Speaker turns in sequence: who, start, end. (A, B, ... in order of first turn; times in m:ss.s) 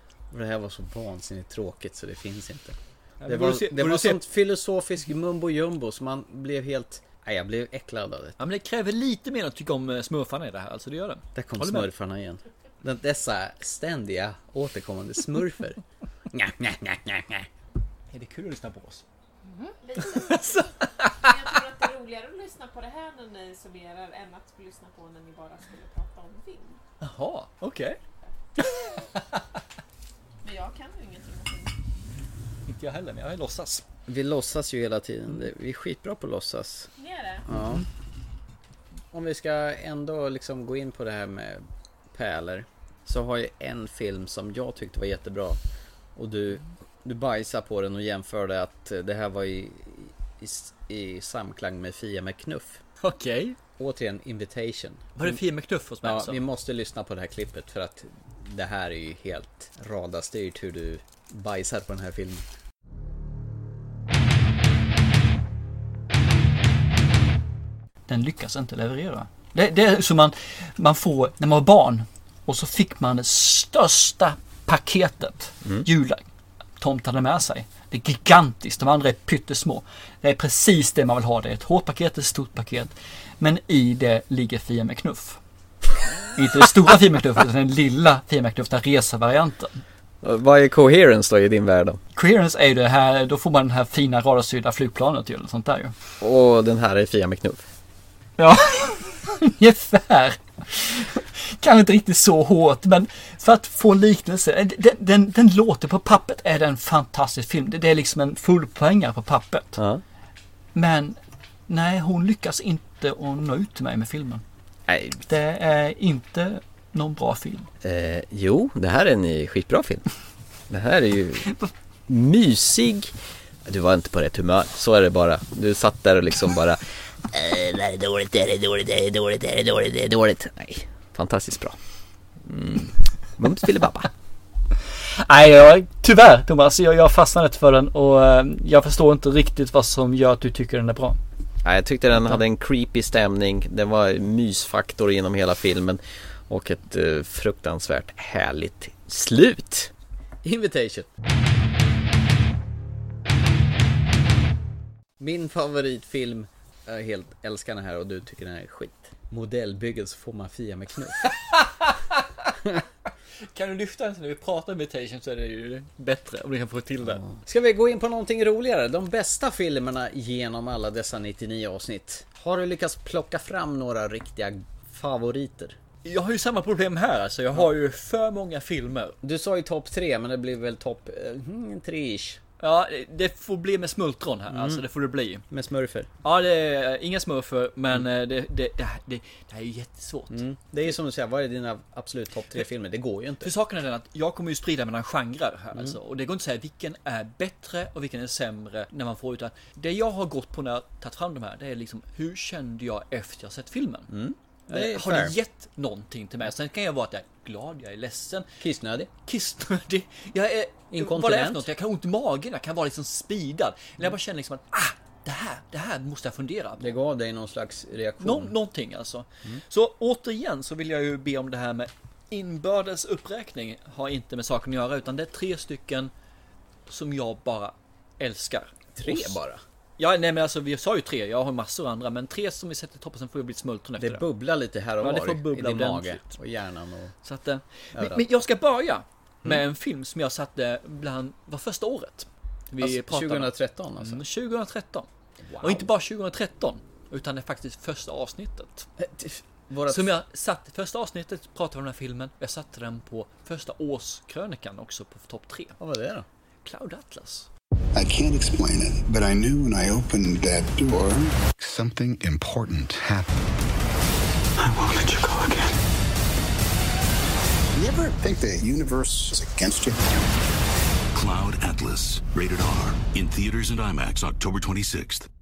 0:00.3-0:08.4 A
0:03.2-0:04.2 B
0:08.4-0:11.9 B
0:11.4-0:15.8 A
0:16.3-0:17.5 A
0:18.1-0:19.0 B
0:19.8-0:26.8 C
0:20.0-0:21.3 B
0:27.0-0:28.0 B
0:28.6-0:29.4 B
0:30.4-0:31.8 C
0:32.7-0:33.8 B
0:34.1-0:36.9 A
0:37.0-0:37.4 C
0:37.5-0:37.8 A
0:39.1-0:45.6 A
0:46.2-0:52.8 A
0:53.0-0:53.6 B
0:53.8-0:55.4 A
0:55.2-0:56.4 B
0:56.0-1:02.4 A
1:08.1-1:16.3 B
1:16.8-1:25.4 B
1:26.4-1:29.8 B
1:30.2-1:32.0 A
1:32.2-1:35.9 B
1:36.2-1:37.7 A
1:38.4-1:49.8 B
1:49.8-1:50.0 A
1:50.8-1:54.4 B
1:54.9-1:55.2 A
1:55.3-1:57.7 B
1:57.8-2:00.0 A
2:00.7-2:01.5 A
2:02.1-2:03.1 A
2:03.6-2:11.8 A
2:12.5-2:14.1 A
2:15.3-2:21.2 B
2:21.6-2:29.9 A
2:30.4-2:31.1 A
2:35.2-2:41.4 A
2:41.5-2:42.2 B
2:43.5-2:47.3 B
2:47.0-2:55.8 A
2:56.0-2:59.2 B
2:59.2-3:02.4 A
3:02.6-3:05.4 B
3:04.5-3:04.8 A
3:05.5-3:06.1 A
3:06.2-3:10.4 B
3:10.3-3:13.5 A
3:13.4-3:24.1 B
3:24.1-3:25.3 A
3:24.7-3:28.5 B
3:28.6-3:29.1 A
3:29.3-3:36.9 B
3:30.9-3:31.7 A
3:36.8-3:38.5 A
3:38.2-3:46.1 B
3:46.9-3:49.4 B
3:49.0-3:49.6 A
3:50.0-3:54.3 B
3:54.0-3:57.1 A
3:55.0-3:56.4 B
3:57.2-4:05.1 B
3:57.9-3:58.2 A
4:02.8-4:04.2 A
4:05.5-4:05.9 A
4:05.6-4:08.9 B
4:09.0-4:10.1 A
4:09.9-4:15.8 B
4:15.8-4:16.3 A
4:16.6-4:17.5 B
4:18.0-4:23.3 D
4:27.8-4:30.1 D
4:31.1-4:35.3 E